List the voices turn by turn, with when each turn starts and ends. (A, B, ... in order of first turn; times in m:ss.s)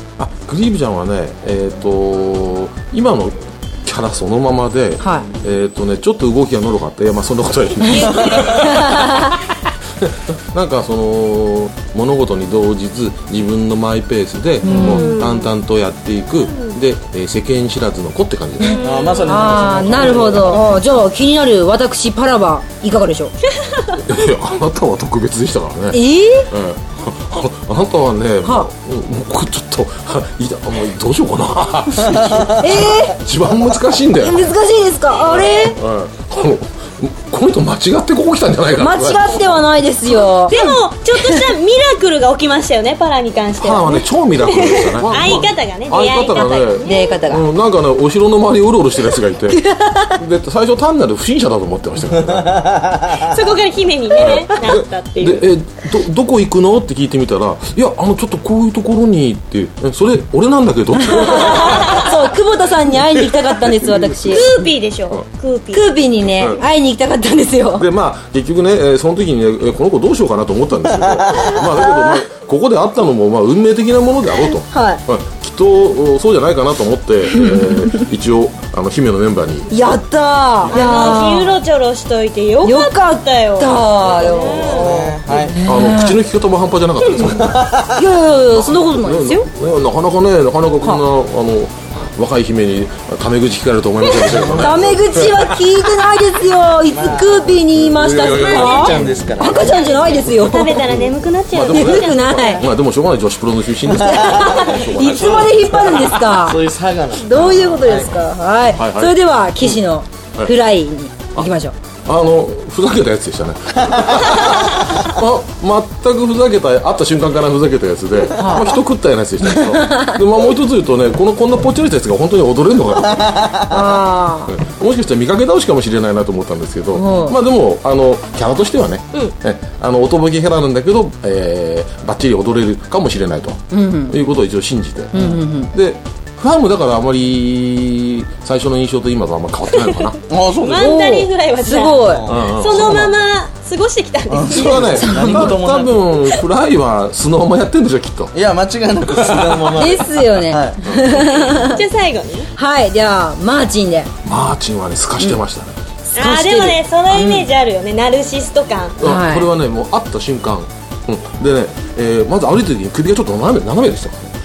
0:00.2-0:18.8 A
0:05.0-0:05.3 B
0:08.0-0:09.4 B
0:08.2-0:08.4 C
0:14.6-0:15.1 B
0:14.7-0:15.5 C
0:18.6-0:19.5 C
0:18.8-0:20.8 D
0:19.3-0:23.3 B
0:19.7-0:20.8 A
0:23.7-0:24.0 C
0:24.0-0:34.5 A
0:25.9-0:26.5 B
0:32.2-0:32.4 D
0:32.6-0:33.2 B
0:34.2-0:35.8 B
0:35.2-0:39.7 A
0:38.8-0:41.5 B
0:40.5-0:47.2 C
0:43.6-0:49.6 A
0:46.8-0:47.4 B
0:49.5-0:50.2 B
0:50.2-0:52.7 A
0:52.3-0:53.4 D
0:53.1-0:55.5 C
0:54.2-1:02.2 A
1:01.0-1:04.5 B
1:01.6-1:02.1 C
1:03.2-1:04.2 A
1:04.3-1:05.9 C
1:05.7-1:07.9 B
1:06.4-1:06.6 A
1:07.8-1:19.7 A
1:14.7-1:15.0 B
1:17.4-1:18.0 B
1:19.7-1:21.6 B
1:20.7-1:25.2 C
1:22.6-1:26.2 B
1:24.0-1:27.8 A
1:24.6-1:25.6 D
1:27.4-1:27.9 D
1:27.9-1:29.5 B
1:28.5-1:35.8 A
1:34.2-1:35.0 D
1:34.4-1:40.9 B
1:36.8-1:37.6 D
1:37.8-1:39.4 A
1:38.2-1:40.1 D
1:39.5-1:42.7 C
1:41.5-1:46.1 A
1:41.7-1:42.6 B
1:44.0-1:46.6 B
1:44.1-1:47.3 D
1:47.2-1:51.8 B
1:47.3-1:48.1 A
1:47.8-1:48.1 D
1:48.8-1:49.2 A
1:52.1-2:03.4 A
1:58.4-1:58.8 B
1:59.5-2:00.2 B
2:03.2-2:03.6 D
2:03.7-2:04.5 B
2:04.5-2:20.2 A
2:07.0-2:07.4 B
2:13.7-2:14.2 B
2:15.1-2:15.7 B
2:15.2-2:15.4 D
2:20.0-2:25.0 C
2:20.3-2:21.1 D
2:20.7-2:22.3 B
2:22.0-2:23.1 D
2:22.3-2:23.2 A
2:24.3-2:26.2 D
2:24.5-2:28.3 A
2:25.0-2:25.6 B
2:28.3-2:30.8 D
2:29.1-2:30.0 A
2:29.8-2:31.8 B
2:30.8-2:31.7 A
2:31.6-2:32.5 C
2:32.6-2:34.1 B
2:34.2-2:35.8 A
2:36.2-2:39.0 C
2:36.2-2:37.5 B
2:39.0-2:44.3 A
2:39.0-2:39.5 B